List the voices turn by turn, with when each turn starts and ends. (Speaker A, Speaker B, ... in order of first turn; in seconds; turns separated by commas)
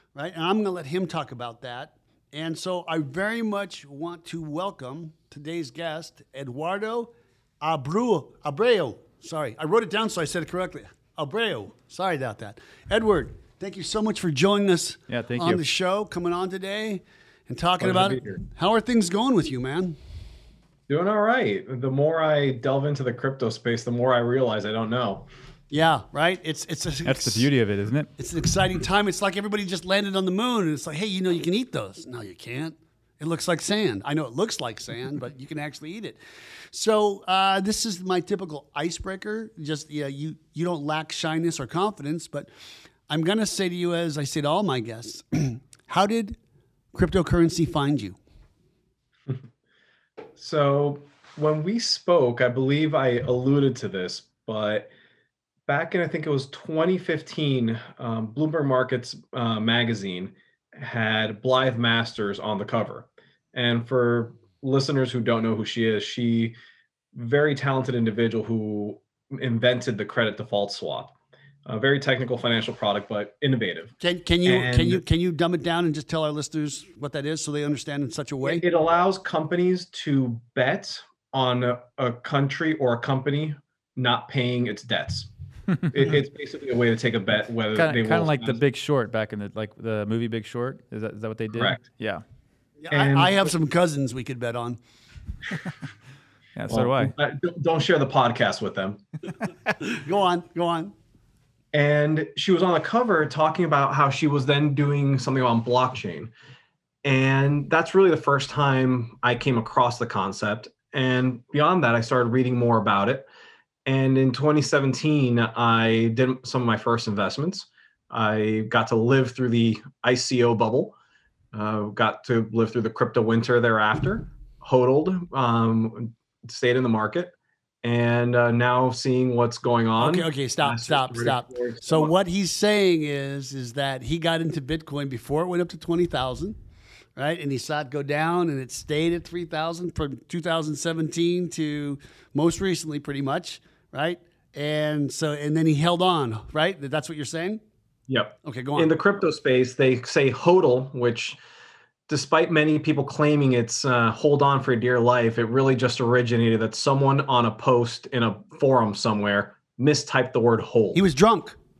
Speaker A: 0.1-20.0, Speaker B: 15.1-15.6, Speaker C: 17.8-18.4, Speaker C: 20.9-25.2, Speaker A: 25.7-27.5, Speaker B: 27.0-28.1, Speaker A: 28.2-36.2, Speaker A: 36.7-42.5, Speaker A: 43.1-46.4, Speaker A: 46.9-48.2, Speaker C: 50.4-54.9, Speaker C: 55.7-66.5, Speaker C: 67.1-71.1, Speaker C: 71.7-73.9, Speaker A: 74.0-78.6, Speaker C: 74.5-75.0, Speaker C: 78.4-85.3, Speaker C: 85.9-88.6, Speaker B: 87.7-92.2, Speaker C: 91.5-91.8, Speaker A: 92.8-94.8, Speaker C: 92.9-93.5, Speaker B: 96.5-97.2, Speaker C: 96.7-99.0, Speaker A: 99.8-100.9, Speaker C: 101.7-106.3, Speaker C: 107.0-113.3, Speaker C: 113.8-120.9, Speaker C: 121.5-132.1, Speaker A: 130.0-136.6, Speaker A: 137.2-147.6, Speaker C: 148.1-151.4, Speaker A: 148.4-148.9, Speaker C: 152.1-161.0, Speaker A: 160.9-161.6